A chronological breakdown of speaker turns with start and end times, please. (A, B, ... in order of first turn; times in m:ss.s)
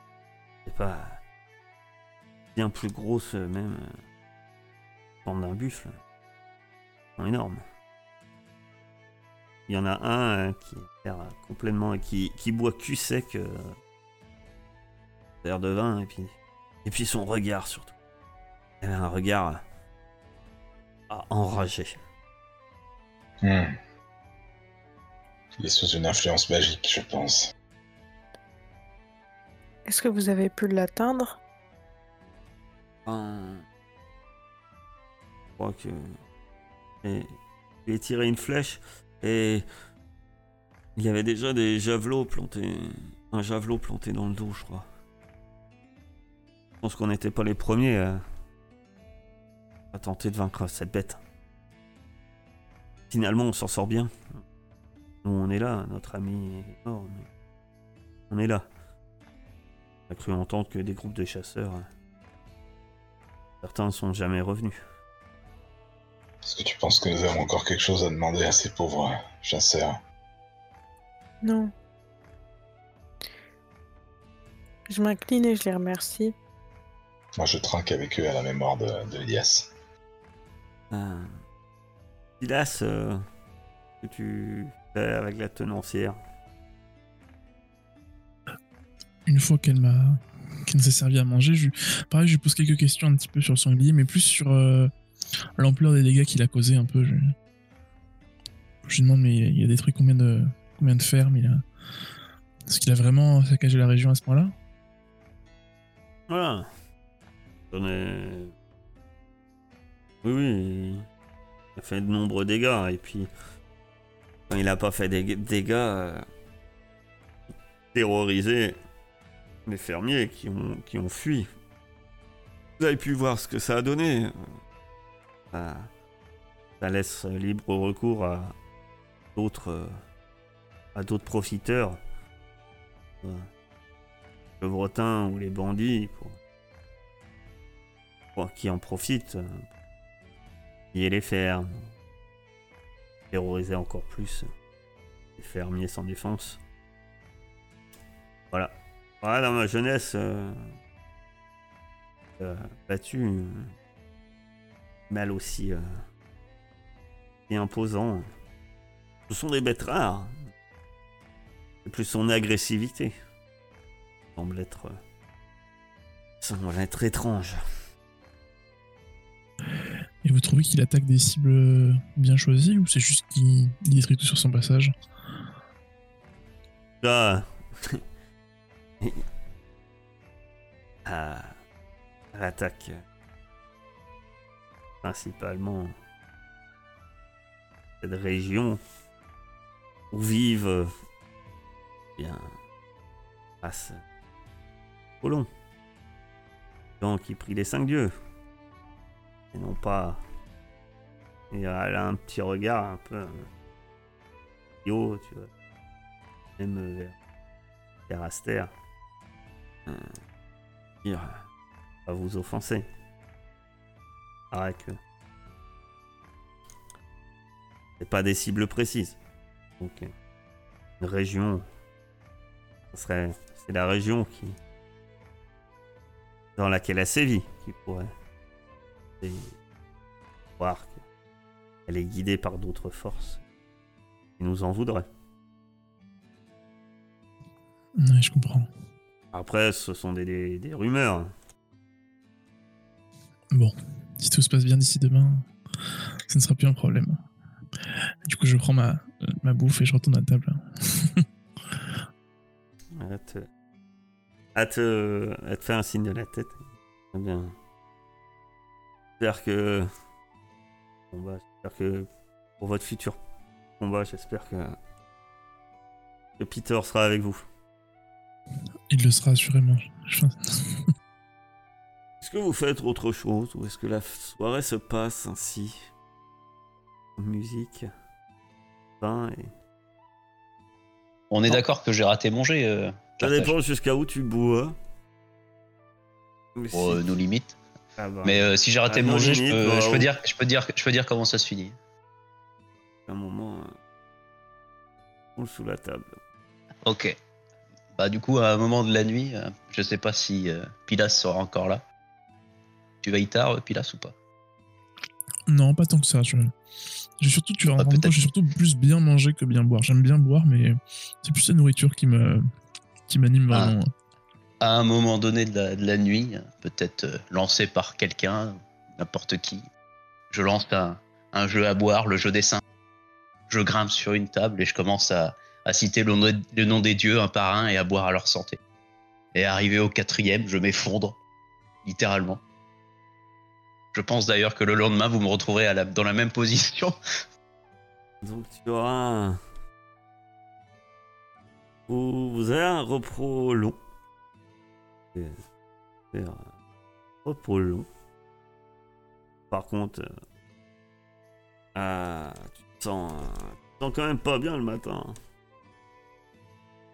0:00.7-0:01.2 A
0:02.6-0:04.0 A
0:05.2-0:06.0 A
0:07.2-0:07.6 A
0:09.7-0:13.8 A
0:15.4-0:18.0 A
0:18.8-0:19.6 A
0:21.1-0:22.0 A
0:23.4-0:23.8 B
0:25.6-0:27.5 B
0:29.9-0:31.4 C
0:33.1-0:33.7 A
0:35.6-0:36.2 A
0:37.0-0:37.4 A
0:37.9-0:39.7 A
0:41.0-0:44.9 A
0:46.8-0:48.2 A
0:49.9-0:51.2 A
0:53.1-0:54.4 A
0:55.2-0:57.3 A
0:58.3-0:58.7 A
1:00.1-1:01.9 A
1:03.6-1:04.8 A
1:06.4-1:10.0 B
1:11.4-1:11.7 C
1:14.9-1:16.3 C
1:17.4-1:19.7 B
1:20.9-1:21.3 A
1:22.4-1:23.2 A
1:24.0-1:26.2 A
1:29.3-1:34.9 D
1:35.6-1:37.3 D
1:38.9-1:41.6 D
1:42.7-1:44.5 D
1:46.3-1:46.7 A
1:47.7-1:48.5 A
1:50.2-1:51.1 A
1:51.8-1:53.3 A
1:54.5-1:56.2 A
1:57.9-1:58.8 A
1:59.7-2:01.5 A
2:02.8-2:04.3 A
2:05.5-2:05.9 A
2:06.8-2:08.6 A
2:09.4-2:10.0 A
2:11.0-2:12.0 A
2:13.2-2:13.5 A
2:14.6-2:16.4 A
2:18.4-2:19.6 A
2:20.9-2:21.9 A
2:23.3-2:24.5 A
2:25.4-2:26.6 A
2:28.5-2:30.6 A
2:32.4-2:33.7 A
2:35.1-2:35.9 A
2:37.5-2:38.3 A
2:39.3-2:40.5 A
2:41.8-2:43.1 A
2:44.4-2:45.0 A
2:46.4-2:47.6 A
2:50.2-2:54.9 D
2:57.0-2:58.0 A
3:01.1-3:01.6 A
3:02.3-3:03.0 A
3:05.0-3:06.0 A
3:08.0-3:08.8 A
3:10.1-3:10.9 A
3:12.2-3:12.5 A
3:13.6-3:14.0 A
3:15.2-3:15.5 A
3:17.0-3:18.1 A
3:19.5-3:20.2 A
3:21.5-3:23.5 A
3:24.8-3:25.5 A
3:26.6-3:27.2 A
3:28.1-3:28.7 A
3:29.9-3:30.2 A
3:31.0-3:31.5 A
3:32.1-3:32.9 A
3:34.5-3:35.0 A
3:38.0-3:39.2 A
3:39.8-3:40.1 A
3:41.0-3:41.7 A
3:42.9-3:44.6 A
3:46.6-3:48.1 A
3:49.2-3:49.6 A
3:50.6-3:51.0 A
3:51.9-3:53.4 A
3:54.4-3:55.1 A
3:58.0-3:58.7 D
3:59.3-4:01.3 A
4:03.5-4:05.5 D
4:06.3-4:07.2 D
4:08.2-4:11.2 D
4:13.0-4:13.5 A
4:14.6-4:17.6 A
4:19.2-4:19.9 A
4:21.1-4:22.1 A
4:22.6-4:23.2 A
4:23.8-4:24.8 A
4:26.4-4:27.5 A
4:28.9-4:30.9 D
4:32.2-4:35.9 A
4:37.2-4:37.9 A
4:39.0-4:39.5 A
4:41.3-4:43.5 E
4:43.2-4:44.8 A
4:46.6-4:47.1 A
4:46.7-4:47.6 E
4:48.0-4:50.1 A
4:48.2-4:51.8 E
4:53.1-4:53.8 A
4:55.4-4:56.2 A
4:56.8-4:57.2 E
4:58.0-5:01.8 E
5:03.0-5:04.1 E
5:05.5-5:06.5 D
5:07.2-5:12.5 D
5:07.8-5:08.2 E
5:13.1-5:13.9 D
5:14.6-5:19.7 E
5:20.3-5:22.6 E
5:23.5-5:28.6 E
5:29.3-5:31.2 E
5:31.8-5:32.4 E
5:34.0-5:37.0 E
5:38.2-5:39.4 A
5:41.9-5:43.8 A
5:45.1-5:45.4 A
5:46.1-5:46.5 A
5:47.2-5:47.9 A
5:49.5-5:50.2 A
5:51.8-5:55.2 A